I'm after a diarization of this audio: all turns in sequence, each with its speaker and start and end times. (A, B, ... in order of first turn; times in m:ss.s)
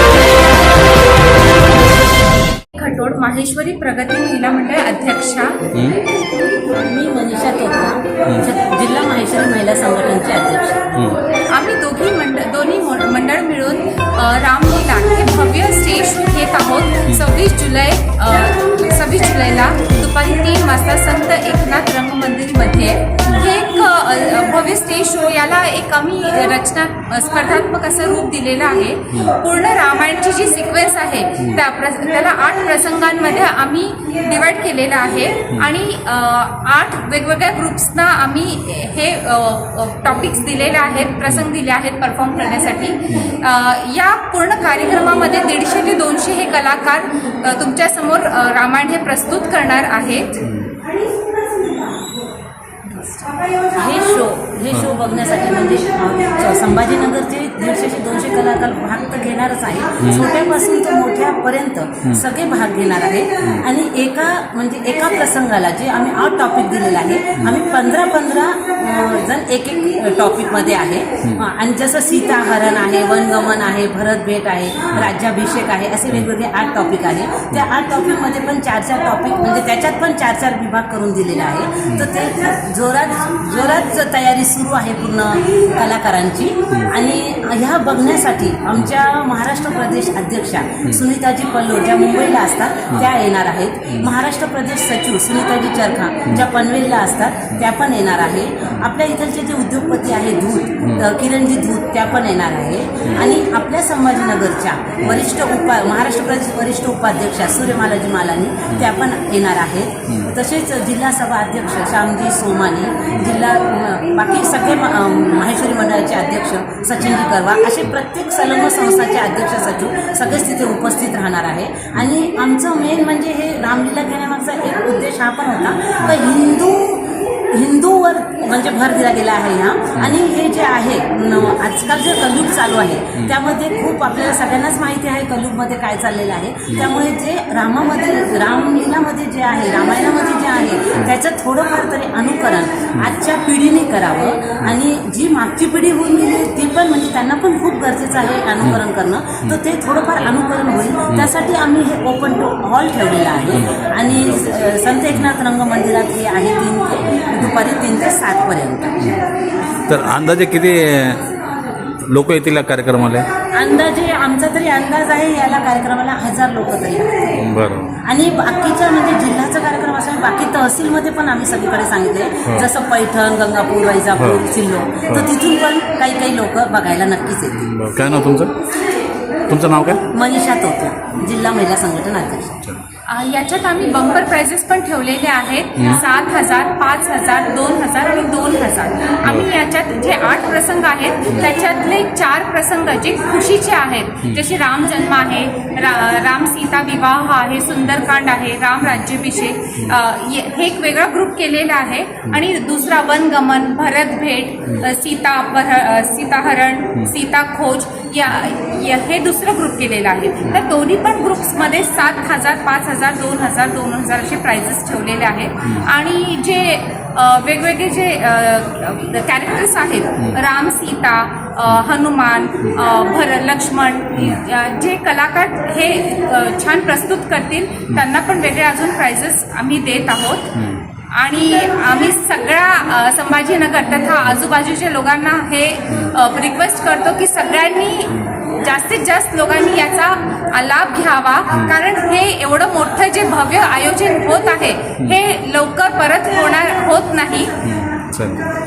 0:02.7-0:05.6 A
0:05.7-0:06.0 B
0:06.7-0:11.2 C
0:10.9-0:11.2 B
0:11.5-0:50.4 A
0:22.7-0:23.4 B
0:29.1-0:29.4 B
0:43.1-0:43.4 B
0:50.4-0:50.7 B
0:52.9-0:53.2 A
0:53.7-2:39.0 C
1:00.0-1:00.3 B
1:40.8-1:41.1 B
1:45.0-1:45.2 B
1:50.1-1:50.3 B
2:33.5-2:34.4 B
2:39.0-2:39.3 B
2:39.8-2:41.2 B
2:42.0-2:43.3 B
2:43.5-2:47.4 C
2:47.3-2:48.0 B
2:48.0-2:57.7 C
2:54.1-2:54.4 B
2:57.5-2:58.5 B
2:59.5-3:00.0 B
3:00.1-3:02.6 C
3:03.1-3:50.5 A
3:09.2-3:09.5 B
3:35.6-3:35.9 B
3:44.2-3:44.4 B
3:50.5-3:50.8 B
3:51.1-4:07.5 A
3:55.9-3:56.2 B
4:01.5-4:01.8 B
4:07.6-4:08.4 B